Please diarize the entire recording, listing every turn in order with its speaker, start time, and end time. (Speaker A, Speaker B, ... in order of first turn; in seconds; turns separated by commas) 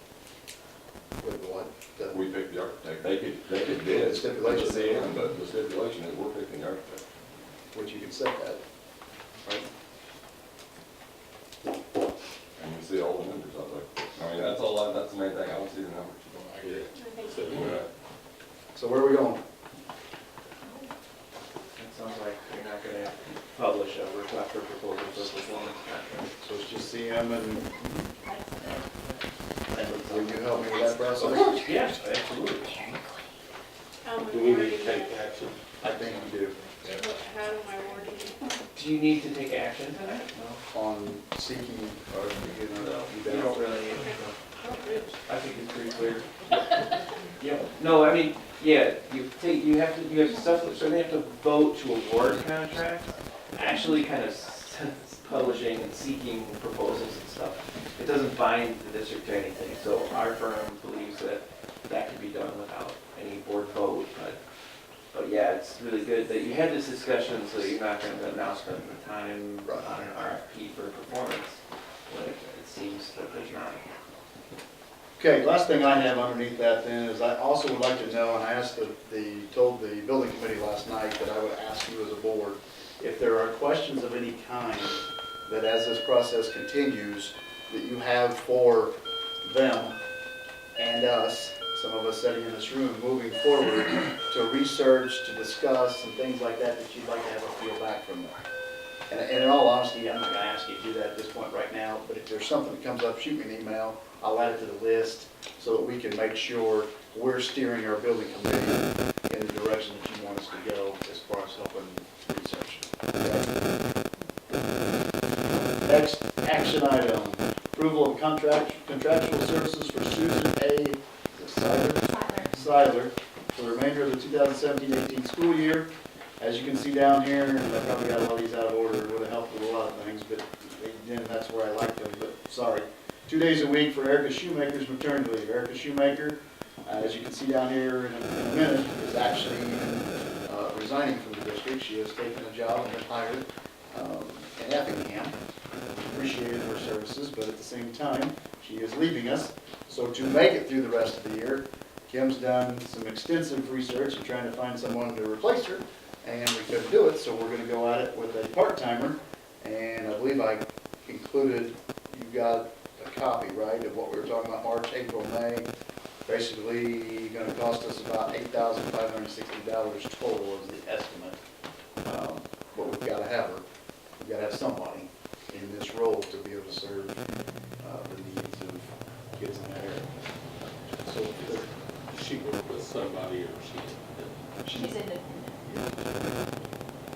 Speaker A: 1.2-2.2, Speaker B: 2.1-7.0, Speaker A: 3.6-5.2, Speaker A: 7.7-8.6, Speaker B: 12.6-16.8, Speaker C: 16.6-17.8, Speaker D: 16.9-17.4, Speaker B: 17.4-17.8, Speaker A: 18.7-19.4, Speaker E: 21.7-26.3, Speaker A: 26.4-28.0, Speaker F: 28.2-28.9, Speaker E: 29.7-30.6, Speaker A: 29.7-31.6, Speaker E: 31.1-33.0, Speaker F: 32.7-33.1, Speaker D: 34.0-35.2, Speaker C: 34.3-35.6, Speaker A: 35.8-36.6, Speaker D: 36.9-38.6, Speaker E: 38.7-40.6, Speaker A: 40.7-43.6, Speaker E: 42.8-44.4, Speaker D: 44.0-45.1, Speaker E: 45.2-46.3, Speaker E: 47.4-64.4, Speaker F: 53.7-54.0, Speaker E: 65.1-73.8, Speaker A: 75.2-90.0, Speaker A: 90.8-98.4, Speaker A: 99.1-113.5, Speaker A: 115.8-145.3, Speaker F: 122.1-122.5, Speaker A: 146.1-165.7, Speaker A: 166.2-171.4, Speaker A: 172.0-173.6, Speaker A: 174.2-177.2, Speaker A: 177.8-180.1, Speaker A: 181.0-181.7, Speaker C: 182.1-184.3, Speaker A: 184.6-184.9, Speaker F: 184.7-185.8